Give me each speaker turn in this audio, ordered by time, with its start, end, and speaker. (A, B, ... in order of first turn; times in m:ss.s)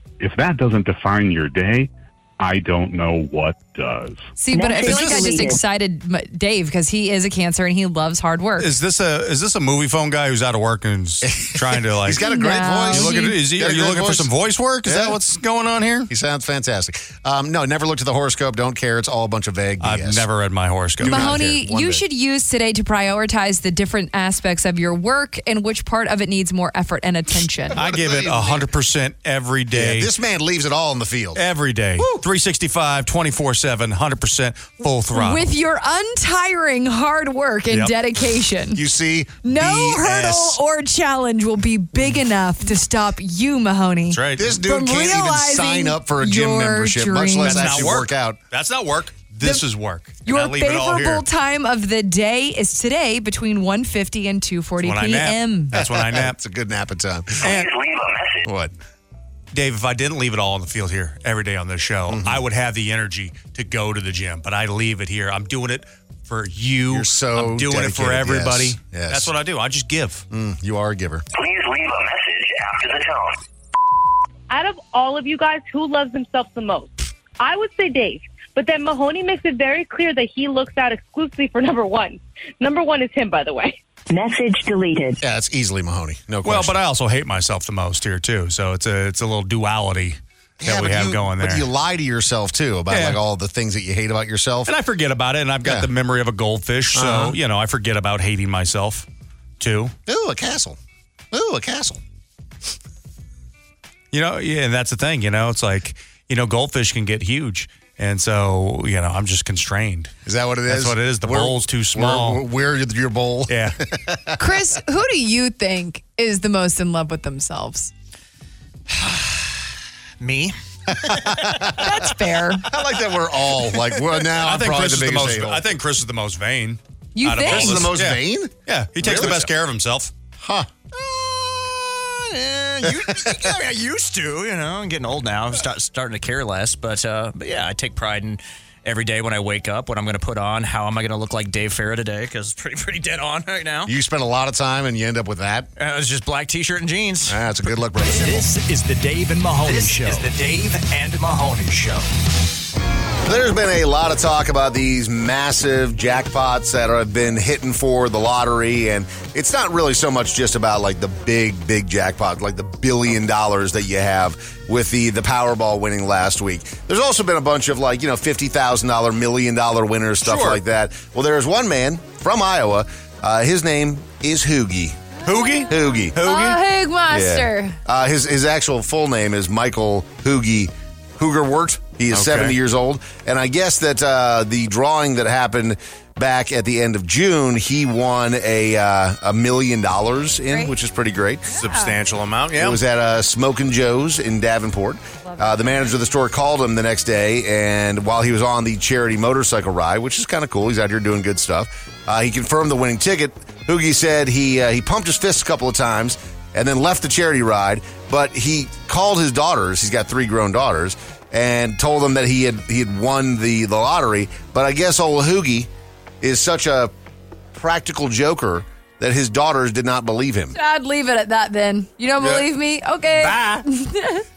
0:00.2-0:04.2 A
0:04.4-0:08.7 B
0:04.5-0:05.6 C
0:08.6-0:12.2 D
0:11.2-0:14.3 E
0:12.2-0:13.3 B
0:12.8-0:16.1 D
0:14.8-0:15.2 E
0:16.1-0:20.2 E
0:19.8-0:21.3 D
0:21.0-0:22.0 E
0:21.0-0:27.8 B
0:27.7-0:28.7 E
0:27.7-0:30.1 D
0:29.7-0:31.4 E
0:31.3-0:35.4 D
0:32.0-0:32.2 E
0:35.1-0:38.8 B
0:38.7-0:40.5 E
0:39.4-0:47.9 B
0:44.1-0:44.6 D
0:44.4-0:48.4 E
0:47.4-0:51.2 D
0:50.2-0:55.7 B
0:54.8-0:56.4 D
0:55.7-0:57.5 E
0:57.4-0:57.7 D
0:57.6-0:58.4 F
0:58.4-0:58.7 E
0:59.5-1:10.2 D
1:02.1-1:02.4 E
1:06.9-1:09.3 E
1:10.3-1:11.2 E
1:11.3-1:13.4 F
1:14.5-1:23.8 G
1:24.1-1:25.2 C
1:25.2-1:26.7 E
1:26.4-1:31.7 D
1:30.6-1:34.7 E
1:32.9-1:33.2 D
1:34.6-1:39.0 D
1:36.9-1:37.4 E
1:39.6-1:39.9 D
1:40.0-1:40.8 E
1:41.3-1:42.0 E
1:44.1-1:50.1 D
1:50.2-1:54.4 E
1:50.7-1:52.4 D
1:53.5-1:53.8 D
1:54.4-1:57.9 B
2:00.2-2:00.5 H
2:00.9-2:02.0 E
2:01.8-2:02.6 B
2:02.7-2:05.6 E
2:04.4-2:10.1 D
2:07.1-2:07.9 B
2:07.4-2:09.5 E
2:10.4-2:13.6 E
2:13.0-2:23.9 H
2:23.8-2:25.7 E
2:25.8-2:27.4 H
2:27.3-2:28.4 E
2:28.0-2:32.0 I
2:29.6-2:30.3 H
2:33.2-2:55.1 E
2:50.2-2:50.6 D
2:55.2-2:57.8 B
2:55.2-2:56.6 D
2:55.6-2:56.2 E
2:57.1-3:11.4 E
3:02.1-3:02.6 D
3:11.4-3:11.9 B
3:11.5-3:12.8 D
3:12.6-3:35.7 E
3:15.2-3:15.9 B
3:36.2-3:36.9 E
3:37.5-3:40.6 E
3:40.5-3:44.2 B
3:43.2-3:43.6 D